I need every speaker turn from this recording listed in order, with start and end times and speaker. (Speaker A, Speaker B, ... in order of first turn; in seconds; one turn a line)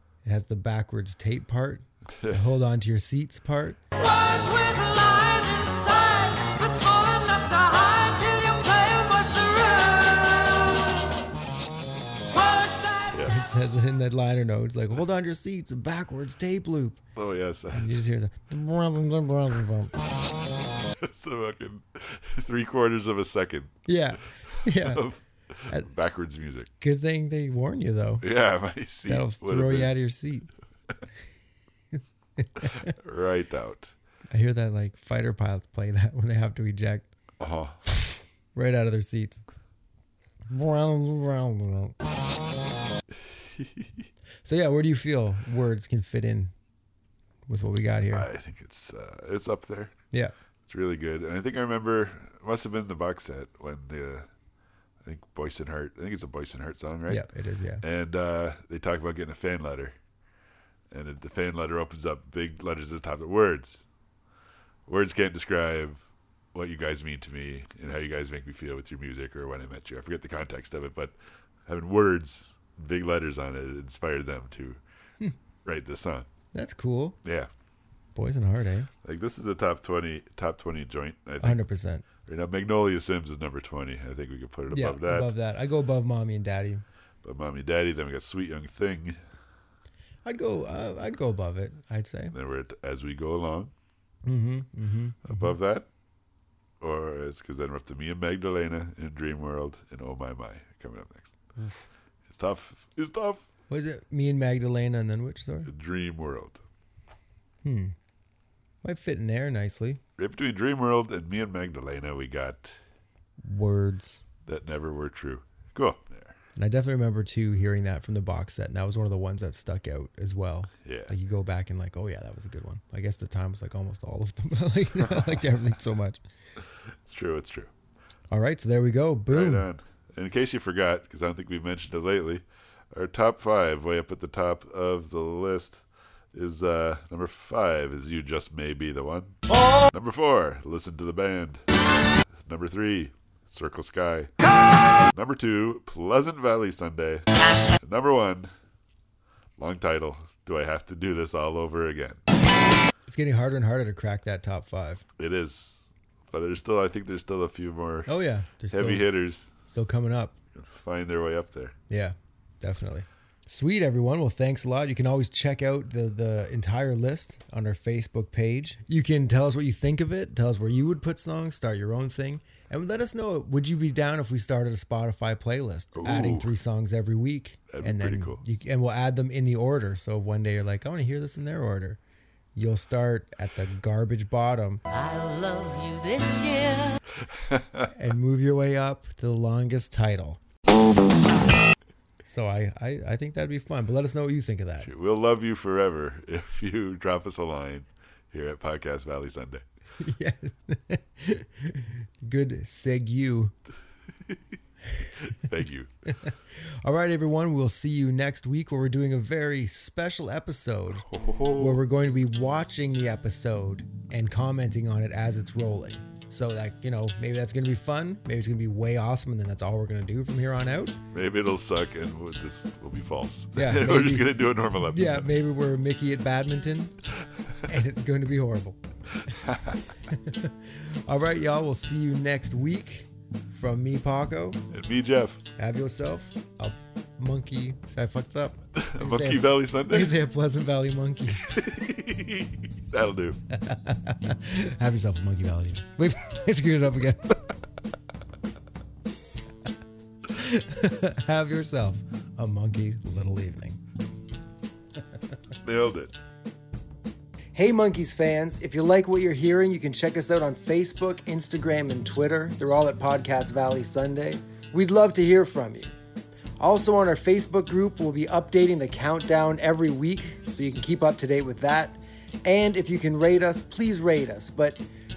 Speaker A: 0.2-3.8
Speaker B: 2.1-2.5
Speaker C: 4.0-11.2
Speaker C: 12.3-13.2
Speaker B: 13.1-13.4
Speaker A: 13.3-17.0
Speaker B: 17.1-18.0
Speaker A: 17.7-19.9
Speaker B: 21.0-26.7
Speaker A: 23.9-25.0
Speaker A: 26.8-28.2
Speaker B: 28.2-29.9
Speaker A: 29.1-30.5
Speaker A: 31.9-32.9
Speaker B: 32.6-33.9
Speaker A: 34.3-37.1
Speaker B: 37.4-37.8
Speaker A: 37.9-39.4
Speaker A: 40.5-41.9
Speaker B: 43.3-44.0
Speaker A: 44.4-46.5
Speaker A: 47.5-48.3
Speaker B: 48.1-49.9
Speaker B: 50.7-54.3
Speaker B: 55.0-57.2
Speaker A: 57.1-57.8
Speaker B: 57.8-60.0
Speaker B: 60.9-63.8
Speaker B: 64.9-71.1
Speaker B: 71.7-74.8
Speaker B: 75.6-76.3
Speaker A: 76.5-77.2
Speaker B: 77.2-77.5
Speaker A: 78.1-78.9
Speaker B: 79.0-81.6
Speaker A: 81.4-82.0
Speaker B: 82.2-85.3
Speaker A: 84.7-86.8
Speaker B: 87.2-89.2
Speaker A: 90.2-92.3
Speaker B: 92.3-93.7
Speaker A: 94.2-95.5
Speaker B: 95.2-95.9
Speaker B: 96.8-101.3
Speaker A: 101.6-101.9
Speaker B: 102.3-103.5
Speaker A: 103.7-105.7
Speaker B: 105.6-106.6
Speaker A: 107.6-107.9
Speaker A: 108.8-110.0
Speaker B: 110.2-112.8
Speaker A: 113.4-114.2
Speaker B: 114.4-116.4
Speaker A: 116.5-126.2
Speaker B: 120.8-121.1
Speaker B: 124.9-125.5
Speaker B: 126.9-127.7
Speaker A: 128.3-129.7
Speaker B: 129.3-141.6
Speaker B: 142.3-144.3
Speaker B: 145.0-147.3
Speaker B: 147.8-148.5
Speaker B: 149.6-152.2
Speaker A: 153.1-155.0
Speaker B: 155.2-158.1
Speaker A: 158.1-159.1
Speaker B: 158.7-159.5
Speaker A: 159.6-160.4
Speaker B: 160.5-161.8
Speaker A: 161.9-182.0
Speaker B: 175.9-176.5
Speaker B: 177.7-178.4
Speaker A: 182.6-184.8
Speaker D: 184.9-187.0
Speaker B: 187.2-187.9
Speaker A: 187.9-190.4
Speaker A: 192.2-194.9
Speaker B: 194.8-199.6
Speaker A: 200.0-203.5
Speaker B: 205.2-205.9
Speaker A: 206.1-221.0
Speaker B: 210.9-211.8
Speaker B: 221.1-225.4
Speaker A: 223.6-224.3
Speaker A: 224.8-226.9
Speaker A: 227.7-228.8
Speaker B: 229.2-229.8
Speaker A: 230.1-234.6
Speaker B: 234.7-235.4
Speaker A: 235.6-241.5
Speaker B: 238.7-240.2
Speaker B: 241.4-243.4
Speaker A: 243.5-247.6
Speaker A: 250.3-253.8
Speaker B: 255.6-256.1
Speaker A: 257.6-265.9
Speaker A: 266.6-274.8